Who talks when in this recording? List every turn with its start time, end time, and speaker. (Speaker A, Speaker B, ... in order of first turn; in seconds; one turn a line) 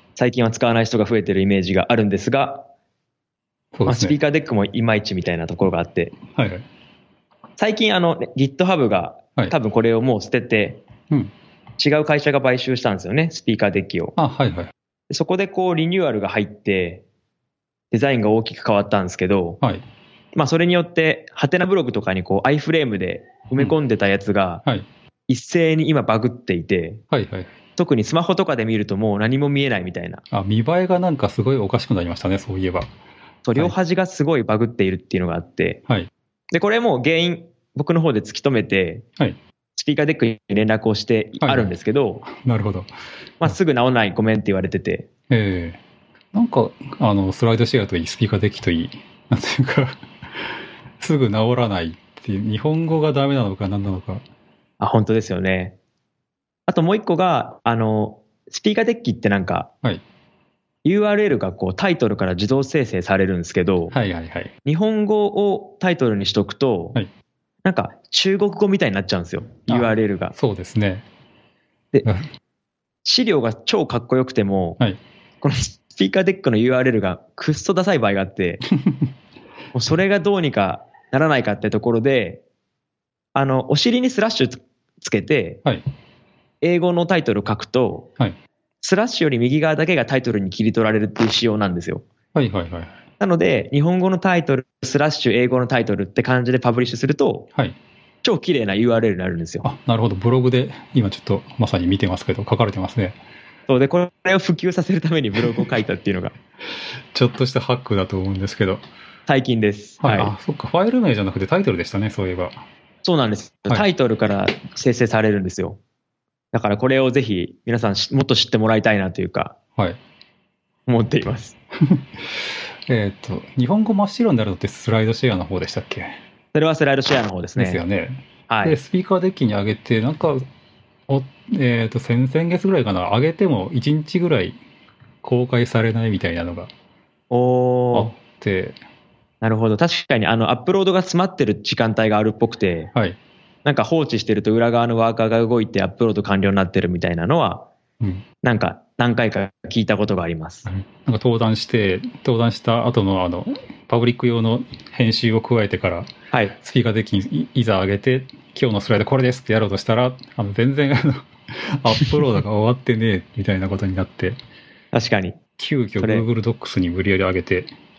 Speaker A: 0.1-2.7
Speaker B: 3.7-4.2
Speaker A: 3.9-6.1
Speaker B: 6.3-6.6
Speaker A: 7.6-10.8
Speaker A: 11.8-14.2
Speaker B: 14.2-14.7
Speaker A: 15.1-17.0
Speaker A: 17.9-19.6
Speaker A: 20.3-24.6
Speaker A: 25.3-27.0
Speaker B: 27.1-27.5
Speaker A: 27.8-30.2
Speaker B: 30.3-32.9
Speaker A: 33.4-35.8
Speaker A: 36.5-39.0
Speaker A: 39.8-42.2
Speaker B: 41.4-41.7
Speaker B: 42.2-42.9
Speaker A: 43.4-45.1
Speaker B: 45.3-45.8
Speaker B: 46.3-54.2
Speaker A: 54.8-55.8
Speaker A: 56.7-59.7
Speaker A: 60.8-63.9
Speaker B: 63.9-64.5
Speaker A: 64.6-67.0
Speaker A: 67.6-70.3
Speaker B: 69.7-71.0
Speaker A: 73.0-74.8
Speaker A: 75.4-78.6
Speaker B: 78.8-79.1
Speaker A: 79.7-82.4
Speaker A: 83.3-85.6
Speaker A: 86.6-88.1
Speaker A: 88.8-92.0
Speaker B: 92.3-93.0
Speaker A: 93.2-97.5
Speaker A: 98.2-99.6
Speaker B: 99.6-103.2
Speaker A: 103.7-106.3
Speaker B: 107.1-108.8
Speaker A: 109.3-110.3
Speaker B: 110.0-112.6
Speaker A: 113.0-115.8
Speaker A: 116.5-119.5
Speaker A: 120.9-121.5
Speaker B: 121.8-126.2
Speaker A: 126.5-127.8
Speaker B: 127.6-130.4
Speaker A: 128.5-128.8
Speaker B: 131.1-134.6
Speaker B: 135.2-136.7
Speaker A: 137.3-138.1
Speaker B: 137.9-138.8
Speaker A: 139.4-142.9
Speaker A: 143.6-147.7
Speaker A: 148.4-150.7
Speaker B: 150.7-164.4
Speaker A: 164.9-165.4
Speaker B: 165.6-167.7
Speaker A: 166.0-166.2